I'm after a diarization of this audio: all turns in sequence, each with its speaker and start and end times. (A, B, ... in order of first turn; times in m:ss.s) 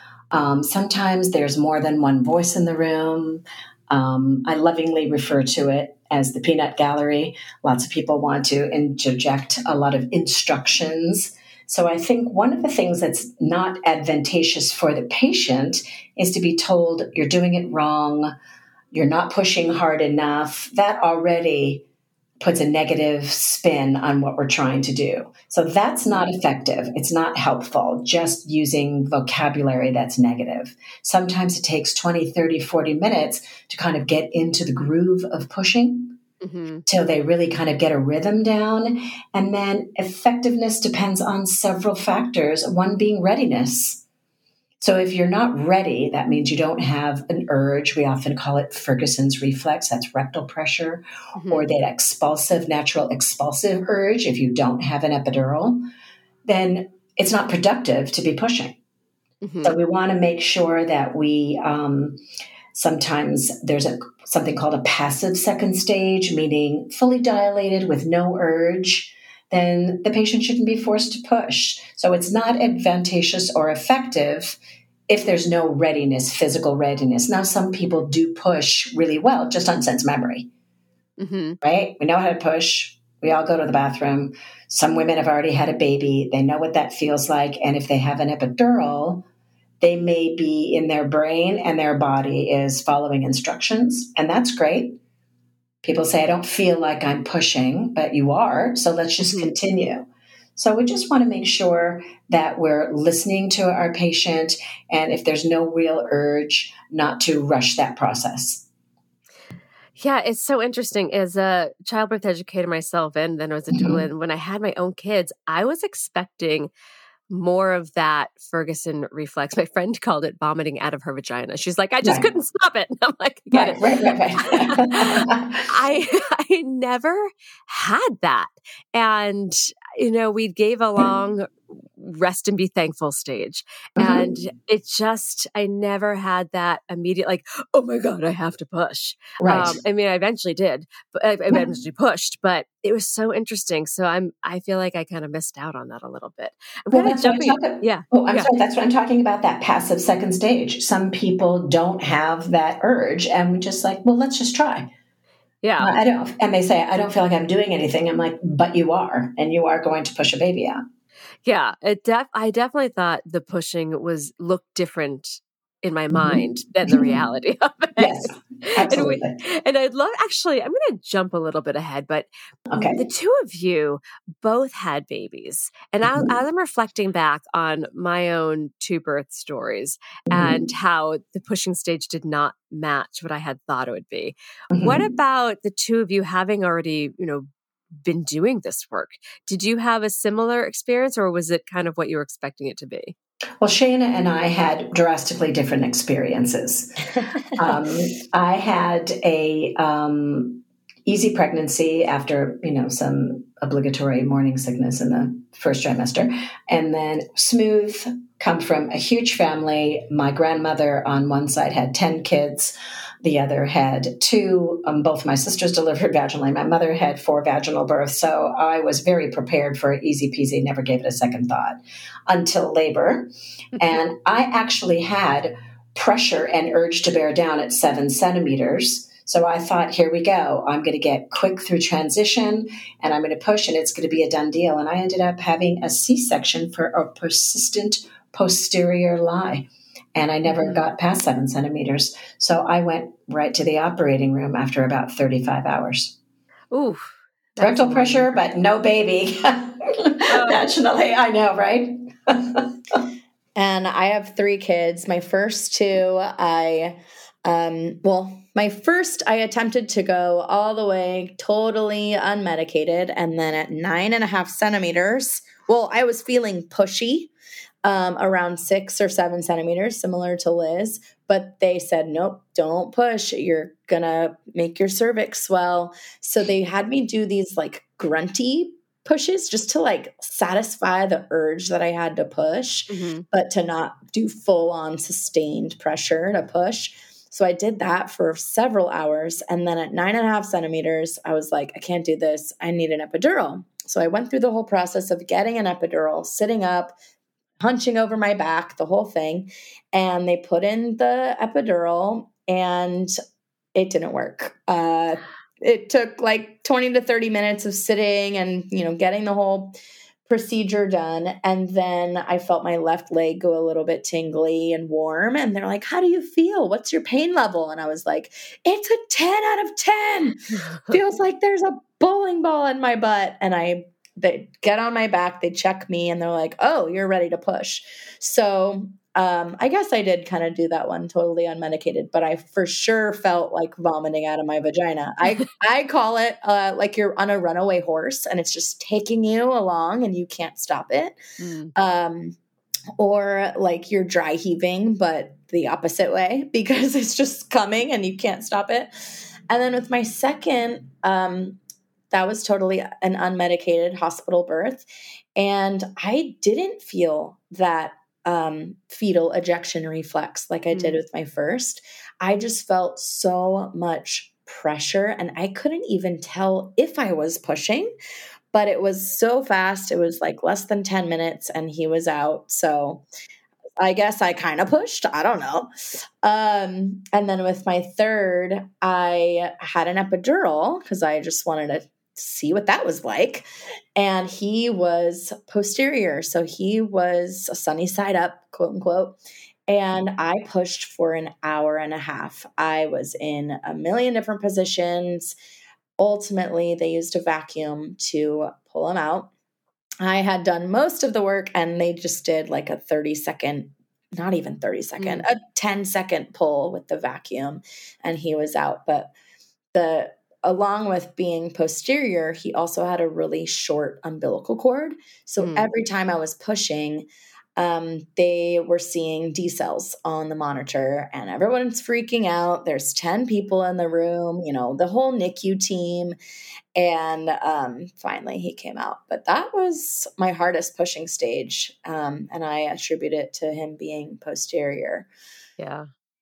0:00.3-0:18.3 A
0:18.9-0:21.8 A
0:22.4-0:36.2 A
0:36.4-0:36.8 B
0:36.9-0:44.0 A
0:44.8-0:55.8 A
0:51.4-0:51.7 B
0:56.4-0:58.8 A
0:59.4-0:59.8 B
0:59.6-1:02.2 A
1:02.7-1:14.6 A
1:15.1-1:20.5 A
1:21.2-1:21.6 B
1:21.6-1:29.2 A
1:29.8-1:35.0 A
1:35.8-1:48.6 A
1:39.2-1:39.5 B
1:50.0-1:56.7 B
1:53.7-1:54.0 A
1:57.3-2:03.8 B
2:03.5-2:05.7 A
2:04.4-2:28.5 B
2:14.0-2:14.4 A
2:19.4-2:19.8 A
2:26.9-2:34.9 A
2:35.6-2:35.9 B
2:35.8-2:40.8 A
2:41.4-2:52.3 B
2:46.1-2:47.2 A
2:48.0-2:49.3 A
2:52.7-2:53.0 A
2:52.9-3:07.4 B
3:00.3-3:00.7 A
3:04.7-3:05.0 A
3:08.0-3:13.1 B
3:13.6-3:16.9 A
3:17.6-4:06.2 A
4:00.5-4:00.8 B
4:06.7-4:08.2 B
4:07.6-4:13.0 A
4:10.3-4:10.6 B
4:13.6-4:27.3 C
4:27.8-4:57.0 C
4:42.9-4:43.2 B
4:57.6-5:03.1 C
5:03.7-5:09.7 C
5:10.3-5:41.2 C
5:41.4-5:41.7 B
5:41.7-5:42.4 C
5:43.0-5:48.9 C
5:49.5-5:51.6 C
5:52.1-5:54.8 C
5:55.4-6:07.9 C
6:00.7-6:01.0 B
6:08.5-6:13.0 C
6:13.8-6:15.7 C
6:16.2-6:35.3 C
6:36.0-6:39.3 C
6:40.0-6:49.1 C
6:45.0-6:45.2 B
6:49.7-6:57.0 C
6:55.4-6:55.7 B
6:57.6-7:06.2 C
7:06.8-7:15.1 C
7:15.6-7:15.9 B